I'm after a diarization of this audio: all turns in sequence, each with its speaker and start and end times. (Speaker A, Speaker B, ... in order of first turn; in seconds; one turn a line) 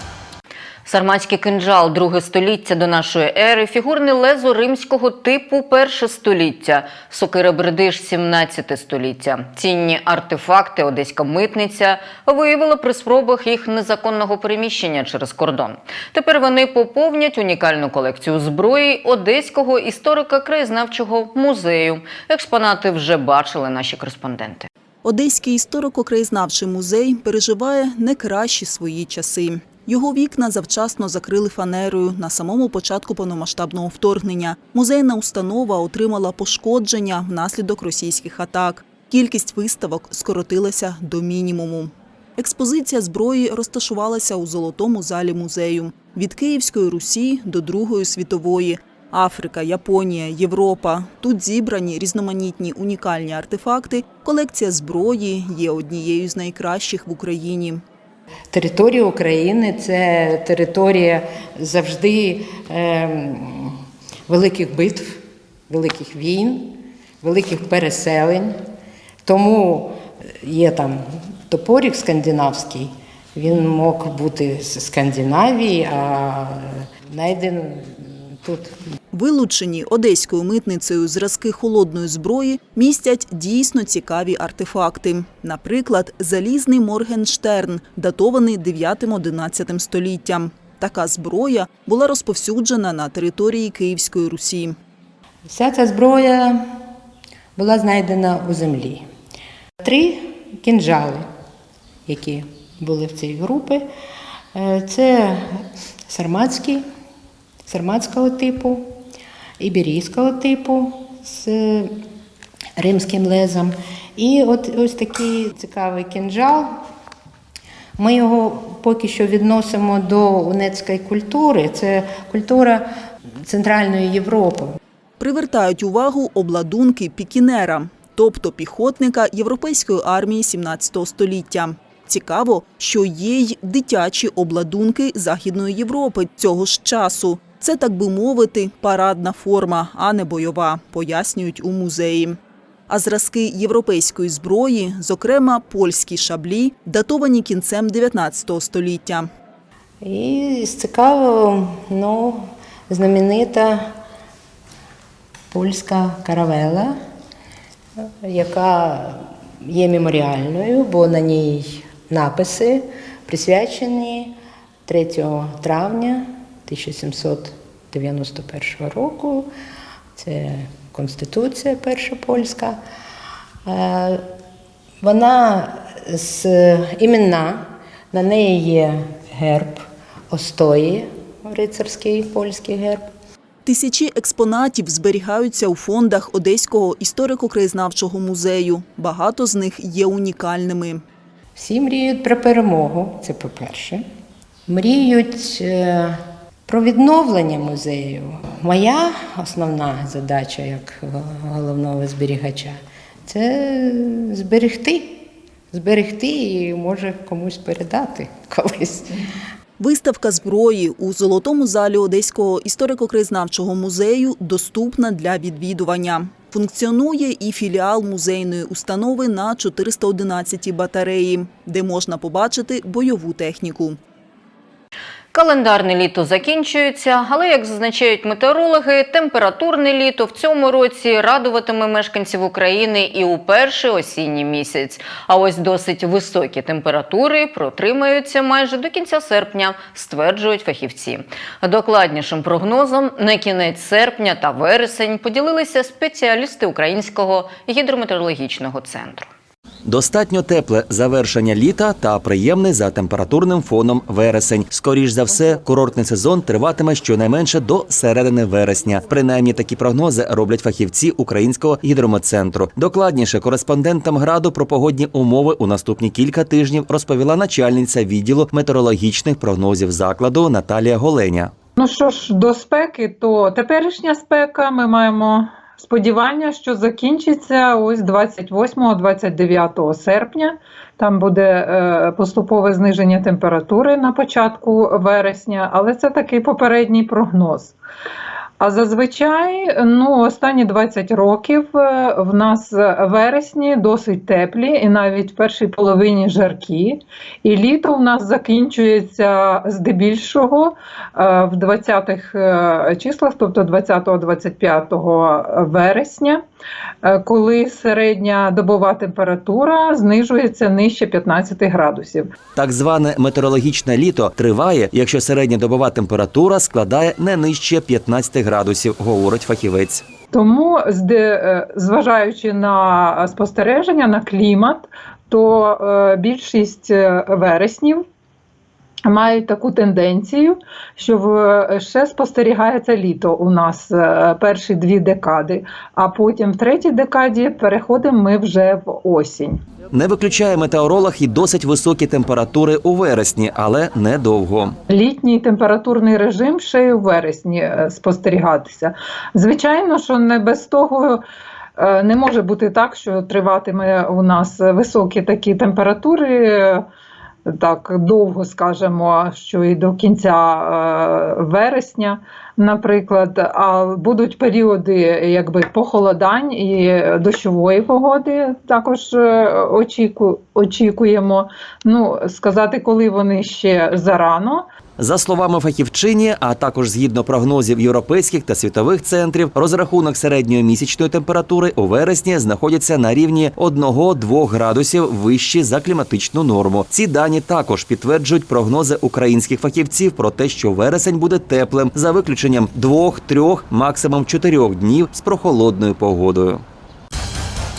Speaker A: 0.9-24.7
Speaker B: 25.0-57.8
Speaker C: 58.5-68.6
Speaker C: 69.2-78.8
Speaker B: 79.1-94.8
Speaker C: 95.5-96.8
Speaker C: 97.6-99.1
Speaker C: 99.8-101.3
Speaker C: 102.1-103.9
Speaker C: 104.5-106.9
Speaker C: 107.7-109.0
Speaker C: 109.6-112.0
Speaker C: 112.8-116.8
Speaker C: 118.0-122.9
Speaker C: 123.4-124.8
Speaker B: 125.2-142.4
Speaker B: 142.9-149.3
Speaker C: 150.0-153.9
Speaker C: 155.5-157.0
Speaker C: 158.0-169.5
Speaker C: 170.2-172.8
Speaker C: 173.7-174.3
Speaker C: 175.0-183.1
Speaker B: 183.7-191.0
Speaker C: 191.6-194.0
Speaker C: 194.7-209.3
Speaker B: 209.8-224.0
Speaker A: 225.3-249.3
Speaker D: 249.8-271.5
Speaker E: 271.8-287.8
Speaker E: 288.6-306.4
Speaker E: 307.0-312.3
Speaker D: 312.6-320.0
Speaker E: 320.3-328.1
Speaker E: 329.1-339.6
Speaker D: 339.9-344.8
Speaker E: 344.9-351.2
Speaker E: 351.8-356.9
Speaker E: 357.5-374.7
Speaker D: 375.0-396.6